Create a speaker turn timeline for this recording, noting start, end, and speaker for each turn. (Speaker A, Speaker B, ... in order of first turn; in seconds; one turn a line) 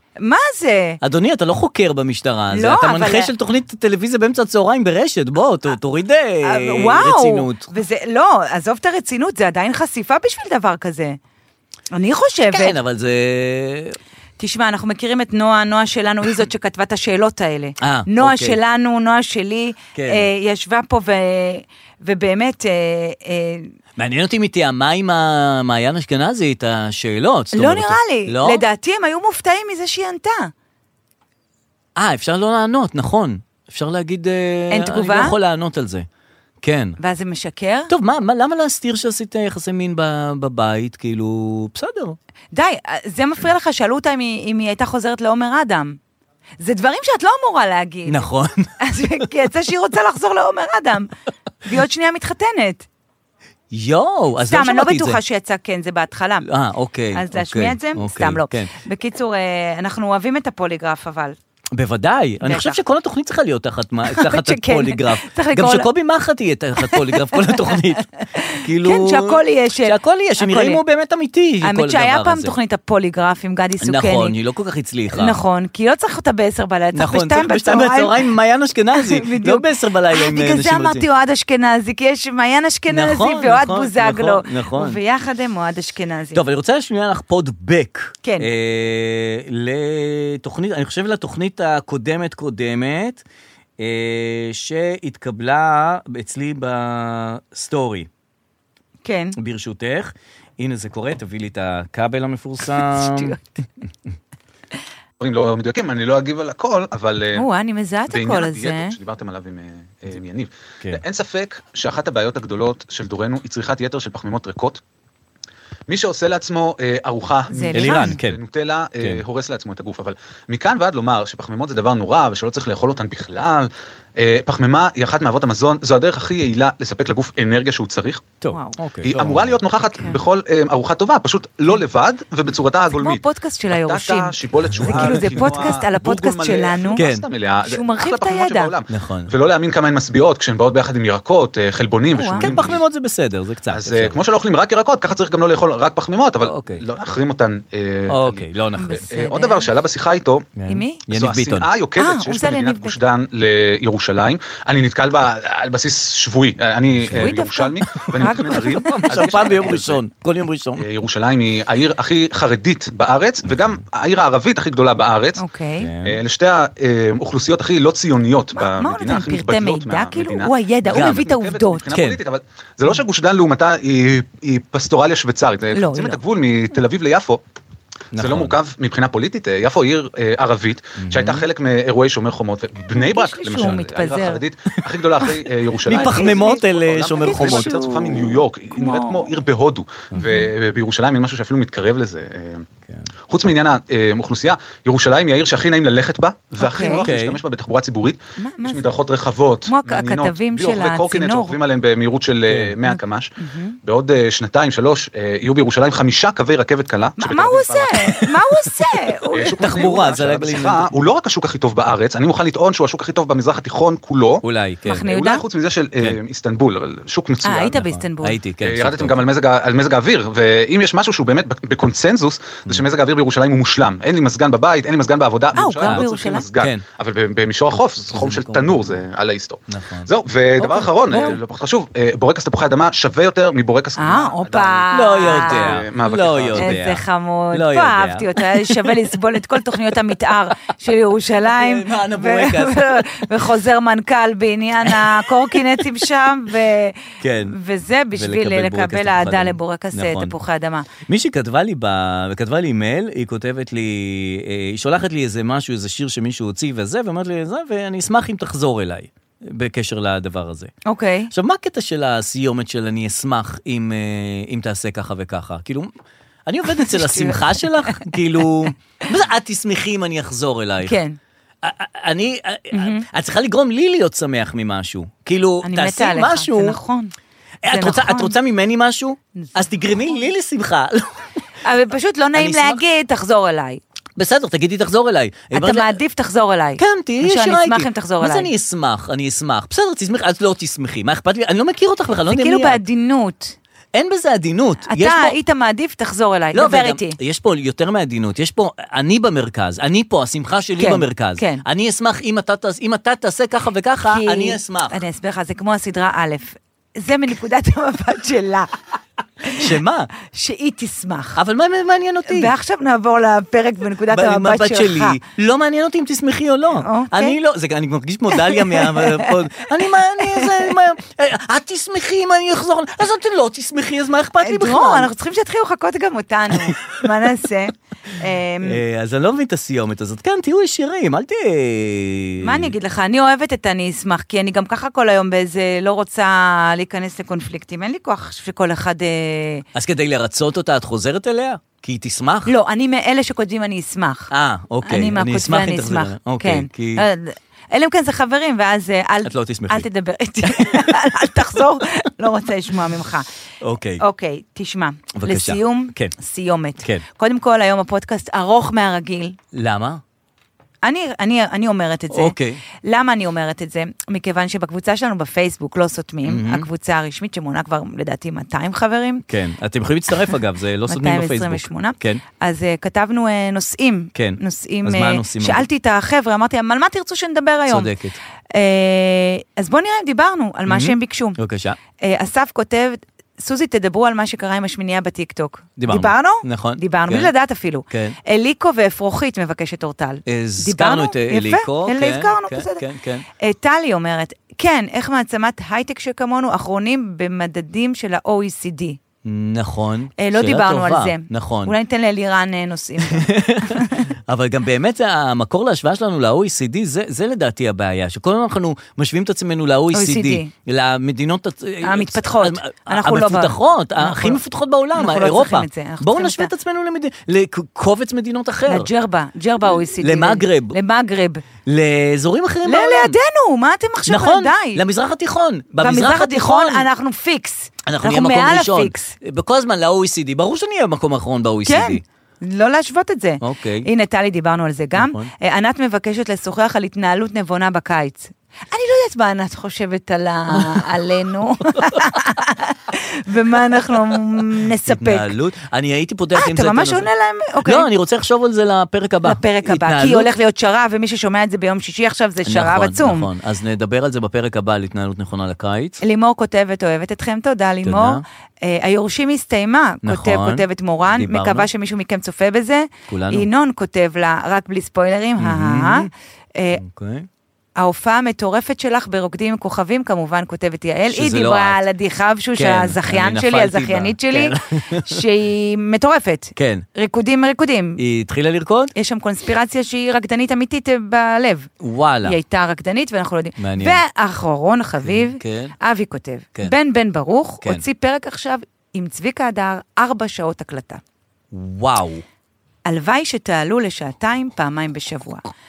Speaker A: 0.2-1.0
Speaker B: 1.0-7.7
Speaker A: 2.5-3.3
Speaker A: 6.4-11.2
Speaker A: 11.9-12.8
Speaker B: 12.5-14.0
Speaker A: 14.4-23.7
Speaker B: 17.8-18.6
Speaker B: 19.9-20.3
Speaker B: 24.0-28.6
Speaker A: 27.5-30.5
Speaker B: 31.9-36.1
Speaker A: 34.7-35.4
Speaker B: 36.6-37.0
Speaker A: 37.0-37.9
Speaker B: 37.9-42.2
Speaker A: 42.5-46.0
Speaker A: 46.6-48.2
Speaker B: 48.0-48.7
Speaker A: 48.8-51.1
Speaker A: 51.6-52.9
Speaker B: 53.7-55.2
Speaker A: 54.4-56.5
Speaker B: 56.4-58.7
Speaker A: 57.1-61.4
Speaker B: 61.7-68.1
Speaker A: 62.4-62.8
Speaker A: 64.0-65.9
Speaker A: 67.1-67.5
Speaker A: 68.3-70.8
Speaker B: 68.6-72.5
Speaker A: 71.6-74.3
Speaker B: 73.8-75.4
Speaker A: 75.1-78.2
Speaker B: 76.9-81.0
Speaker A: 78.9-86.4
Speaker B: 82.9-85.0
Speaker B: 86.3-93.2
Speaker A: 88.2-88.5
Speaker B: 93.8-98.1
Speaker A: 99.0-99.3
Speaker B: 99.3-103.3
Speaker A: 102.8-103.4
Speaker C: 105.2-107.5
Speaker A: 107.3-109.0
Speaker C: 108.1-114.8
Speaker C: 115.9-128.3
Speaker A: 117.5-118.2
Speaker B: 117.6-118.4
Speaker B: 128.4-129.6
Speaker A: 128.5-128.8
Speaker C: 129.0-142.8
Speaker A: 129.9-130.2
Speaker A: 132.9-137.1
Speaker B: 134.7-135.3
Speaker B: 136.9-137.3
Speaker A: 137.6-138.7
Speaker B: 138.9-139.3
Speaker A: 142.1-142.7
Speaker B: 142.4-144.2
Speaker C: 143.7-148.5
Speaker B: 146.4-146.8
Speaker B: 148.1-149.1
Speaker A: 148.8-149.8
Speaker C: 149.1-150.5
Speaker B: 150.6-151.7
Speaker A: 150.7-151.0
Speaker C: 151.1-160.0
Speaker A: 152.0-153.0
Speaker B: 157.0-157.3
Speaker A: 157.2-159.0
Speaker B: 158.2-160.9
Speaker C: 160.8-165.4
Speaker A: 165.4-165.9
Speaker B: 165.8-166.2
Speaker C: 166.0-177.4
Speaker A: 168.6-171.9
Speaker B: 170.8-171.3
Speaker B: 171.9-172.2
Speaker A: 175.7-176.2
Speaker B: 178.1-178.6
Speaker C: 178.2-192.7
Speaker B: 181.0-181.5
Speaker A: 182.9-184.4
Speaker B: 185.8-188.0
Speaker A: 185.8-189.3
Speaker B: 190.1-190.4
Speaker A: 190.2-190.5
Speaker C: 193.3-208.2
Speaker A: 196.6-197.1
Speaker B: 196.8-197.4
Speaker A: 198.4-198.9
Speaker A: 199.6-201.6
Speaker A: 202.8-203.8
Speaker A: 207.2-209.9
Speaker C: 209.3-214.4
Speaker B: 209.5-210.9
Speaker B: 214.4-215.1
Speaker A: 214.8-215.4
Speaker C: 215.0-217.8
Speaker A: 217.4-218.4
Speaker B: 217.7-219.2
Speaker C: 218.6-236.9
Speaker A: 225.5-226.5
Speaker B: 225.8-226.1
Speaker B: 226.6-226.8
Speaker B: 228.0-229.0
Speaker B: 229.7-231.4
Speaker A: 231.1-231.4
Speaker A: 233.9-235.9
Speaker B: 234.9-239.1
Speaker A: 236.5-250.9
Speaker B: 241.4-243.3
Speaker B: 244.8-245.8
Speaker B: 247.2-247.6
Speaker B: 248.1-250.3
Speaker B: 251.1-260.7
Speaker A: 260.9-261.3
Speaker B: 261.3-265.9
Speaker B: 266.4-271.0
Speaker A: 266.8-268.1
Speaker A: 270.8-271.2
Speaker B: 271.6-276.8
Speaker A: 272.7-273.1
Speaker A: 275.6-277.1
Speaker B: 277.6-281.2
Speaker A: 277.7-278.3
Speaker A: 281.6-283.8
Speaker B: 282.3-282.8
Speaker B: 284.1-286.0
Speaker A: 285.5-288.5
Speaker B: 286.8-292.8
Speaker A: 292.3-293.6
Speaker B: 293.9-295.4
Speaker A: 294.9-297.2
Speaker B: 296.5-305.0
Speaker A: 300.8-301.6
Speaker A: 304.1-308.8
Speaker A: 309.4-309.7
Speaker B: 309.5-310.1
Speaker A: 310.2-311.4
Speaker B: 311.4-312.5
Speaker A: 312.3-315.2
Speaker B: 314.1-325.1
Speaker A: 316.8-317.4
Speaker A: 318.3-319.3
Speaker A: 320.3-320.6
Speaker A: 324.4-328.8
Speaker B: 328.6-332.7
Speaker A: 332.4-339.6
Speaker B: 339.7-342.5
Speaker A: 342.4-344.3
Speaker B: 344.3-347.0
Speaker A: 344.8-353.3
Speaker B: 349.2-349.9
Speaker B: 350.4-351.1
Speaker B: 353.6-354.0
Speaker A: 354.0-359.4
Speaker B: 355.1-356.1
Speaker B: 359.5-360.0
Speaker A: 360.8-369.2
Speaker B: 362.1-362.6
Speaker B: 366.2-366.7
Speaker B: 369.3-372.2
Speaker A: 370.9-377.9
Speaker B: 374.1-375.6
Speaker B: 377.6-378.2
Speaker A: 378.5-381.4
Speaker B: 380.7-381.8
Speaker A: 382.0-392.8
Speaker B: 385.8-387.3
Speaker B: 387.9-388.2
Speaker B: 390.2-393.3
Speaker A: 393.4-399.0
Speaker B: 399.2-401.8
Speaker A: 400.2-404.0
Speaker B: 403.0-418.9
Speaker A: 409.9-410.5
Speaker A: 411.8-414.4
Speaker A: 414.9-416.5
Speaker A: 418.7-421.4
Speaker B: 419.6-420.8
Speaker B: 421.6-423.2
Speaker A: 422.6-424.8
Speaker B: 424.1-426.9
Speaker A: 425.8-429.1
Speaker B: 427.8-432.0
Speaker A: 431.6-445.3
Speaker B: 433.4-433.9
Speaker B: 434.9-435.3
Speaker B: 444.8-447.1
Speaker A: 446.3-447.9
Speaker B: 447.6-450.3
Speaker A: 449.2-453.3
Speaker B: 452.4-456.0
Speaker A: 456.0-466.8
Speaker B: 457.8-458.2
Speaker B: 460.0-461.7
Speaker B: 463.1-463.5
Speaker B: 465.4-466.1
Speaker B: 466.7-467.3
Speaker A: 467.8-478.0
Speaker B: 471.1-471.8
Speaker B: 472.6-475.2
Speaker B: 476.6-476.9
Speaker B: 478.0-478.9
Speaker A: 478.9-481.7
Speaker B: 481.8-482.4
Speaker A: 482.2-491.0
Speaker B: 483.6-484.0
Speaker B: 485.0-485.7
Speaker B: 491.5-492.2
Speaker A: 492.9-495.5